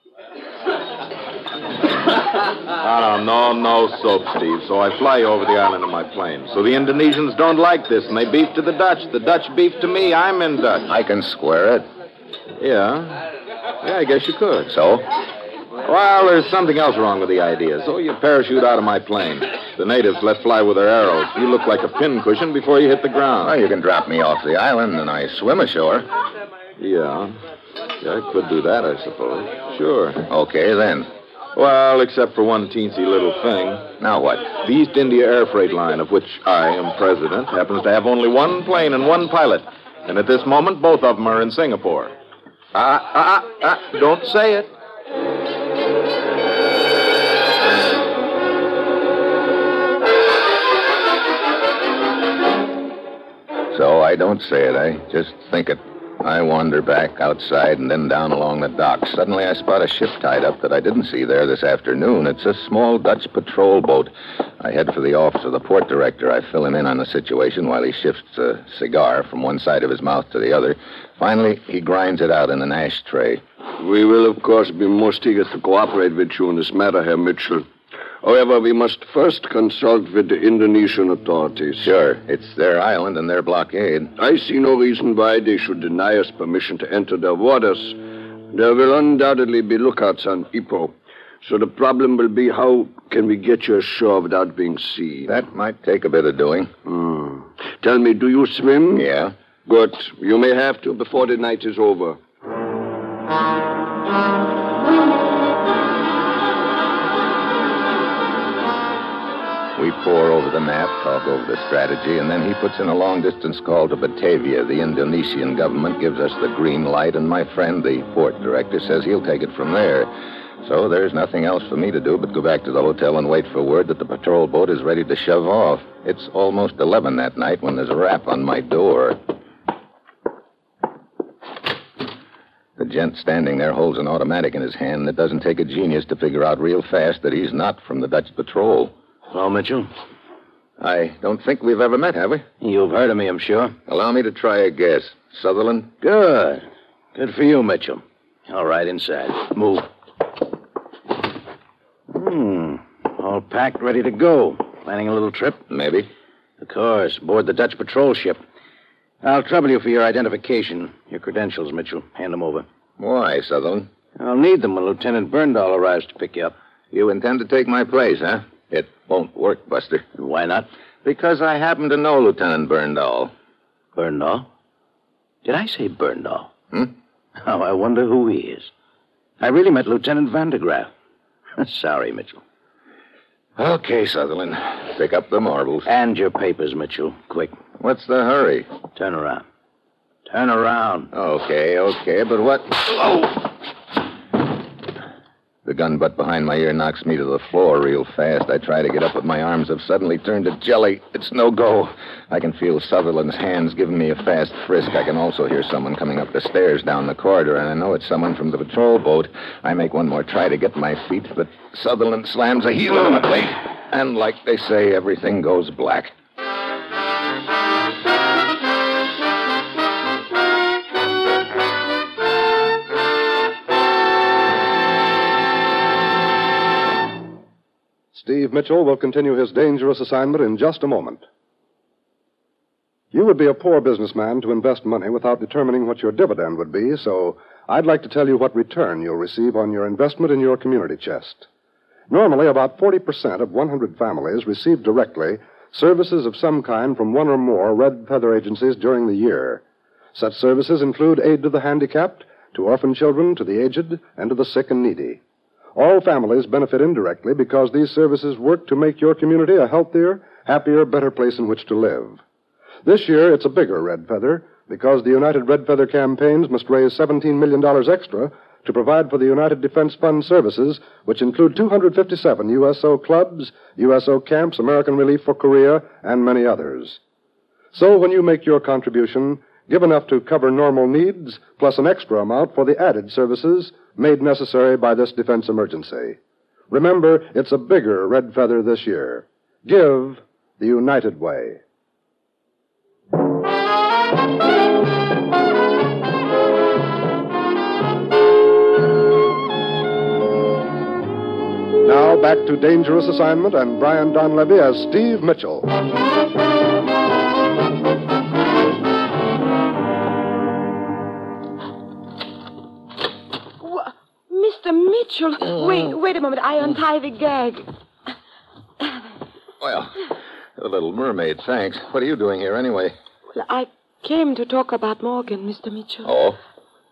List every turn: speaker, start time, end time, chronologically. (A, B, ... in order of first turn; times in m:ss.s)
0:02.7-0:10.9 A
0:10.9-0:11.8 B
0:12.6-0:13.2 A
0:13.8-0:14.7 A
0:14.7-0:15.0 B
0:15.8-0:23.6 A
0:23.4-0:26.1 B
0:26.8-0:27.4 A
0:28.0-0:30.2 A
0:30.3-0:31.1 B
0:31.5-0:33.9 A
0:34.0-0:34.6 B
0:34.5-0:42.1 A
0:42.7-0:44.7 A
0:53.7-1:13.4 B
1:13.8-1:17.6 C
1:18.2-1:21.9 C
1:21.8-1:24.1 B
1:24.2-1:28.0 C
1:28.5-1:35.3 C
1:35.3-1:36.7 B
1:36.8-1:39.1 C
1:38.9-1:39.3 B
1:39.6-1:42.2 C
1:49.8-2:09.2 B
2:12.8-2:18.9 B
2:19.3-2:19.9 D
2:20.8-2:22.4 B
2:22.6-2:23.7 D
2:23.9-2:26.0 B
2:26.0-2:29.9 D
2:32.1-2:35.6 D
2:35.7-2:36.1 B
2:36.6-2:38.4 D
2:39.2-2:42.6 D
2:43.0-2:43.9 B
2:44.2-2:46.5 D
2:46.9-2:50.0 B
2:50.2-2:50.7 D
2:51.0-2:53.3 B
2:53.9-2:54.5 D
2:55.4-2:56.5 D
2:57.4-2:58.7 D
2:59.4-3:00.9 D
3:01.6-3:02.4 D
3:03.6-3:05.8 B
3:05.8-3:07.5 D
3:07.8-3:08.7 B
3:08.9-3:09.4 D
3:10.3-3:11.1 D
3:11.1-3:13.3 B
3:15.6-3:36.1 B
3:48.1-3:51.2 E
3:53.1-4:01.4 E
4:02.1-4:09.6 E
4:10.1-4:15.2 E
4:15.7-4:22.2 E
4:22.8-4:37.0 E
4:37.7-4:46.2 E
4:46.7-4:51.6 E
5:01.8-5:05.7 E
5:13.6-5:17.6 F
5:19.6-5:20.0 B
5:20.6-5:22.9 B
5:23.3-5:26.1 F
5:26.0-5:26.4 B